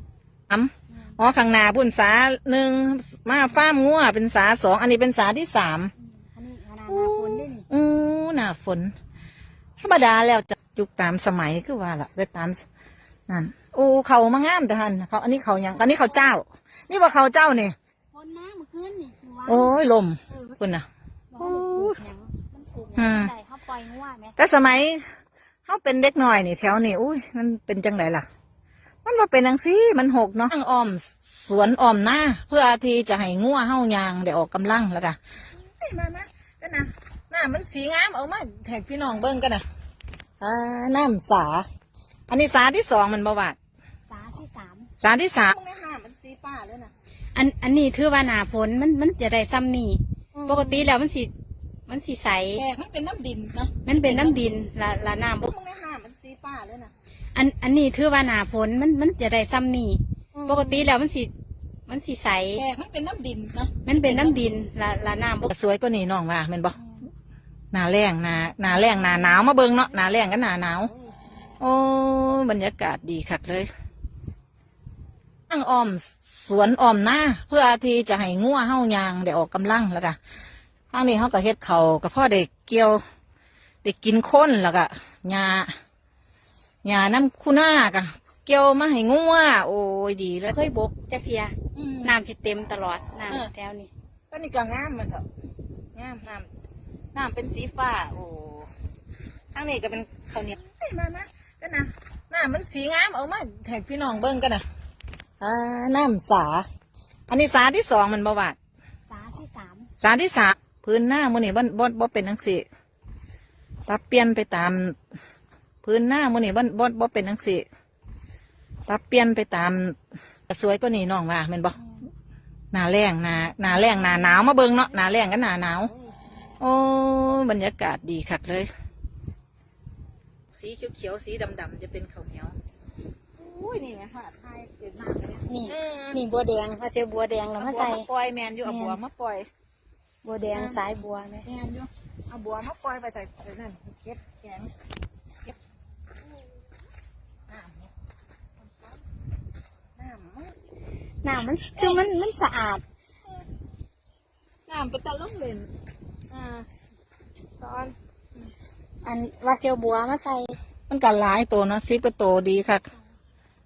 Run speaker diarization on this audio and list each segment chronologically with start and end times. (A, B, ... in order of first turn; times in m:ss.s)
0:00.5-0:05.9 A
0:00.9-0:01.2 B
0:06.0-0:07.7 B
0:06.9-0:08.9 A
0:09.8-0:12.6 A
0:13.3-0:17.7 A
0:15.8-0:16.2 B
0:18.1-0:19.7 B
0:19.4-0:20.8 A
0:20.3-0:20.6 B
0:21.3-0:24.4 B
0:21.4-0:22.0 A
0:23.0-0:23.3 A
0:24.4-0:25.0 A
0:25.7-0:28.2 A
0:29.0-0:39.6 A
0:40.4-0:41.6 A
0:42.3-0:43.6 A
0:44.1-0:44.9 B
0:45.0-0:46.9 A
0:47.3-0:51.3 B
0:50.4-0:50.9 A
0:51.9-0:52.6 B
0:52.5-0:54.4 A
0:53.8-0:55.5 B
0:55.4-0:56.9 A
0:57.3-1:01.3 B
1:00.4-1:00.9 A
1:01.9-1:02.6 B
1:02.6-1:04.4 A
1:03.8-1:05.5 B
1:05.5-1:06.8 A
1:07.7-1:10.9 A
1:11.6-1:13.7 A
1:15.5-1:20.2 A
1:20.9-1:23.0 A
1:23.8-1:25.7 A
1:26.8-1:30.6 A
1:30.5-1:33.9 B
1:31.7-1:32.2 A
1:34.3-1:35.2 A
1:35.9-1:36.5 A
1:37.1-1:38.7 A
1:39.5-1:44.6 A
1:45.4-1:46.6 A
1:47.3-1:48.6 A
1:49.1-1:49.9 B
1:50.0-1:52.6 A
1:53.9-1:55.0 A
1:55.8-1:57.6 A
1:58.9-2:00.0 A
2:00.5-2:01.8 A
2:02.7-2:05.9 A
2:03.7-2:04.3 B
2:06.6-2:08.7 A
2:10.5-2:12.6 A
2:13.4-2:16.2 A
2:15.5-2:18.1 B
2:17.6-2:19.5 A
2:18.6-2:19.0 B
2:20.2-2:21.5 B
2:20.5-2:20.8 A
2:21.4-2:24.7 A
2:27.5-2:27.9 A
2:30.0-2:30.5 A
2:31.2-2:32.8 B
2:31.7-2:32.0 A
2:34.7-2:35.7 A
2:36.3-2:36.6 A
2:37.6-2:37.9 A
2:39.0-2:40.5 B
2:40.9-2:42.9 A